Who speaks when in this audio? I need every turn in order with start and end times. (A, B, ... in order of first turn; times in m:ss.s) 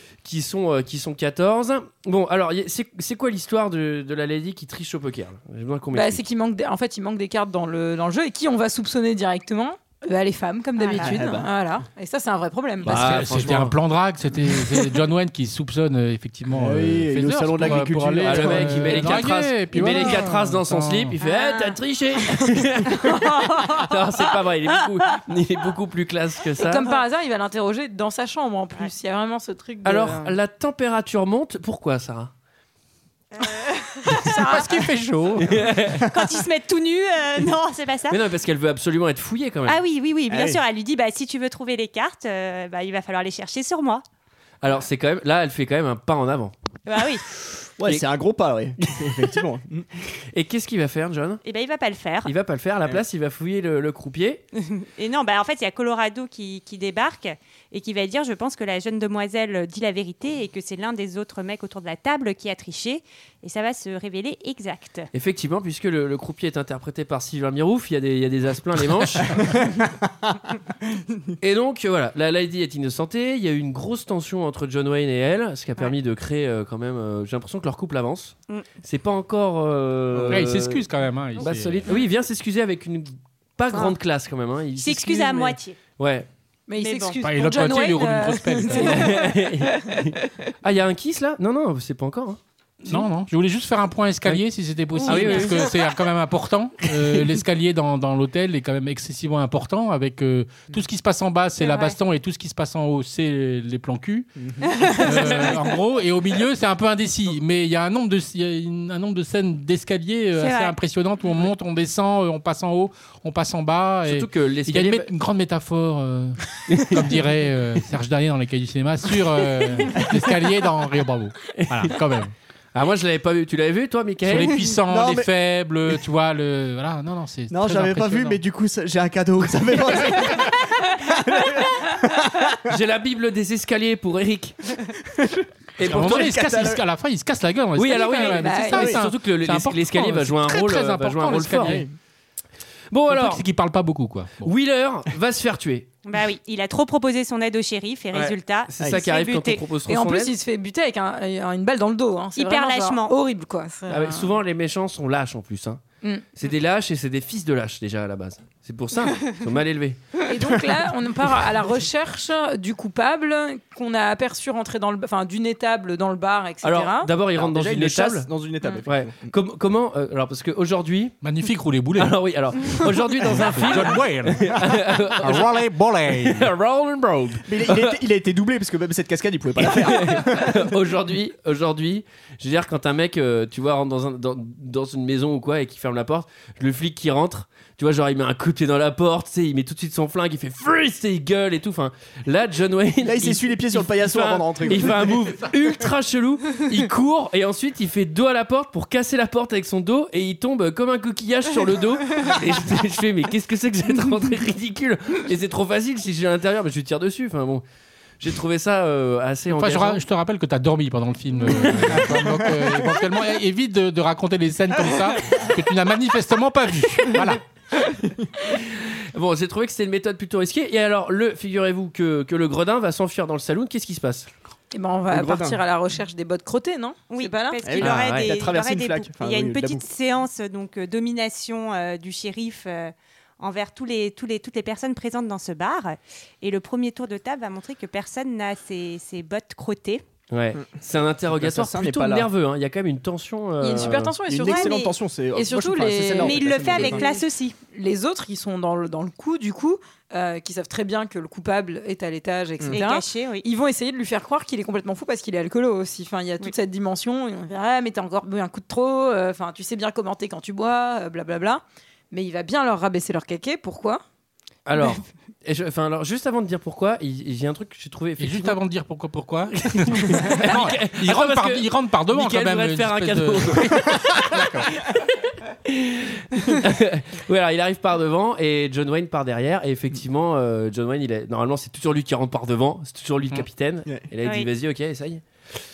0:00.2-0:06.3 A
0:05.9-0:13.2 B
0:10.8-0:11.3 C
0:11.0-0:11.5 D
0:12.8-0:13.8 A
0:12.9-0:21.2 E
0:16.5-0:19.1 D
0:18.2-0:26.9 A
0:21.2-0:21.8 C
0:26.6-0:30.4 B
0:29.8-0:32.3 A
0:33.4-0:33.8 C
0:34.1-0:35.8 E
0:34.1-0:34.9 B
0:35.4-0:36.0 A
0:36.1-0:38.2 C
0:38.1-0:39.8 A
0:39.7-0:44.0 C
0:40.3-0:40.6 D
0:44.6-0:46.5 A
0:46.9-0:47.2 C
0:47.8-0:49.9 D
0:48.8-0:49.1 A
0:50.3-0:51.4 A
0:51.4-0:52.3 C
0:52.2-0:54.4 A
0:54.6-1:05.1 C
1:05.1-1:09.5 A
1:09.6-1:09.9 D
1:11.4-1:26.3 A
1:20.1-1:20.4 D
1:20.3-1:21.9 E
1:24.8-1:25.8 C
1:26.7-1:30.0 B
1:26.8-1:27.2 C
1:27.2-1:29.1 E
1:28.7-1:33.0 A
1:32.8-1:44.3 E
1:35.0-1:35.6 C
1:35.0-1:35.7 A
1:37.0-1:37.2 A
1:41.6-1:42.0 C
1:44.4-1:44.8 D
1:44.9-2:02.3 E
1:50.4-1:50.8 C
1:54.1-1:55.1 A
1:56.7-1:57.1 A
1:59.6-1:59.9 A
2:01.6-2:02.0 A
2:02.7-2:04.7 A
2:04.2-2:08.4 E
2:04.9-2:05.3 D
2:07.5-2:12.7 D
2:12.6-2:14.6 A
2:15.1-2:15.5 D
2:15.8-2:16.6 A
2:15.8-2:21.9 E
2:16.0-2:16.8 D
2:17.8-2:21.8 A
2:18.0-2:18.9 B
2:21.6-2:21.9 D
2:22.9-2:23.4 A
2:23.1-2:24.5 E
2:24.4-2:25.9 A
2:26.0-2:29.6 C
2:28.1-2:30.3 A
2:29.8-2:34.3 B
2:32.4-2:33.2 C
2:33.9-2:35.8 A
2:36.4-2:40.2 A
2:40.3-2:47.1 B
2:46.6-2:48.3 A
2:47.4-2:49.3 D
2:48.9-2:51.2 A
2:51.2-2:56.5 E
2:52.0-2:55.6 A
2:56.1-2:58.0 A
2:57.5-3:00.6 D
2:59.6-3:27.6 A
3:13.0-3:15.1 D
3:28.2-3:30.0 A
3:29.5-3:37.4 E
3:31.6-3:32.1 A
3:31.8-3:32.7 D
3:38.4-3:44.3 A
3:44.7-3:47.6 B
3:45.1-3:45.6 D
3:47.1-4:00.0 C
3:47.6-3:49.8 D
3:47.8-3:48.4 A
4:00.3-4:04.2 A
4:01.3-4:02.3 D
4:03.6-4:24.0 B
4:04.3-4:07.1 D
4:04.5-4:04.9 C
4:06.2-4:07.6 C
4:12.7-4:13.5 C
4:24.7-4:28.6 A
4:28.2-4:34.7 E
4:29.8-4:34.6 A
4:35.7-4:45.2 A
4:44.2-4:44.5 C